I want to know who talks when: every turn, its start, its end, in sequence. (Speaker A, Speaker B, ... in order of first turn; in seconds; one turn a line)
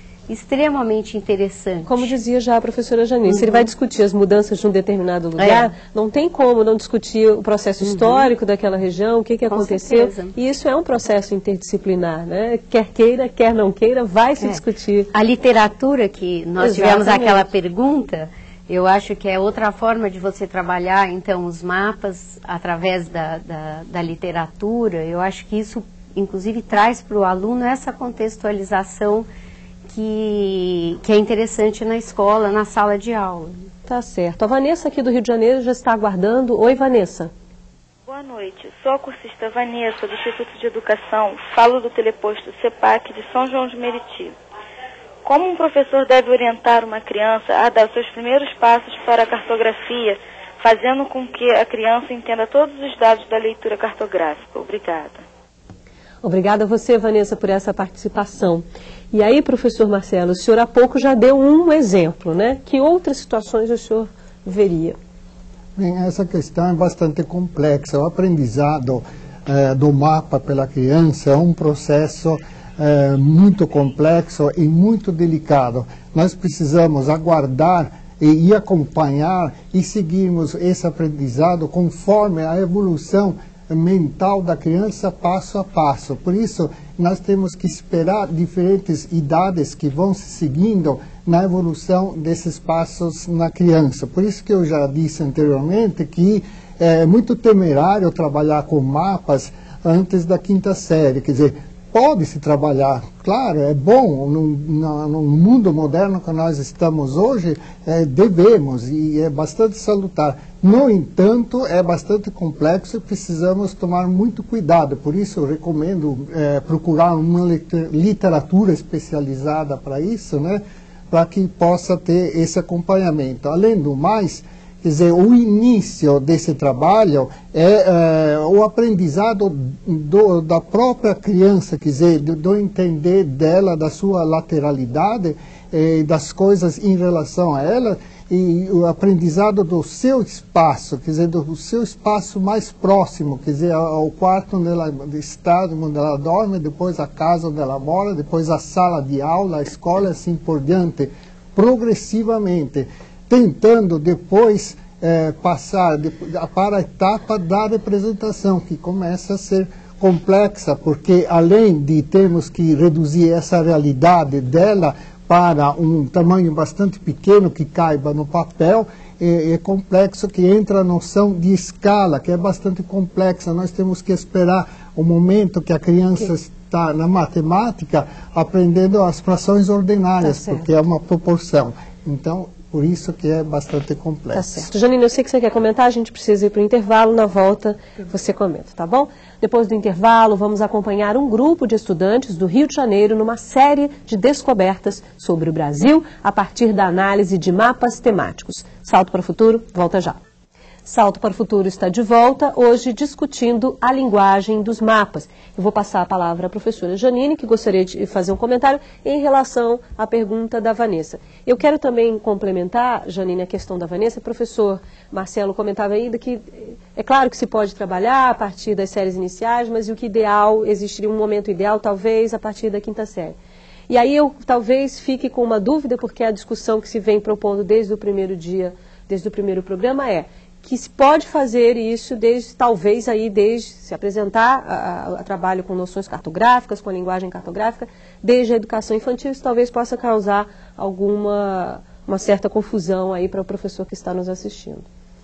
Speaker A: 0.3-2.1
Speaker B: 1.9-15.1
Speaker A: 3.3-3.7
Speaker A: 5.4-5.7
Speaker A: 7.8-8.3
Speaker A: 9.5-10.3
Speaker A: 15.1-29.3
Speaker B: 16.6-17.5
Speaker A: 29.9-33.5
Speaker B: 33.9-37.3
Speaker C: 38.1-44.4
Speaker C: 45.2-55.2
Speaker B: 56.2-65.0
Speaker D: 65.8-184.7
Speaker B: 180.2-180.7
Speaker B: 184.3-200.2
Speaker B: 200.9-223.4
Speaker B: 223.9-244.9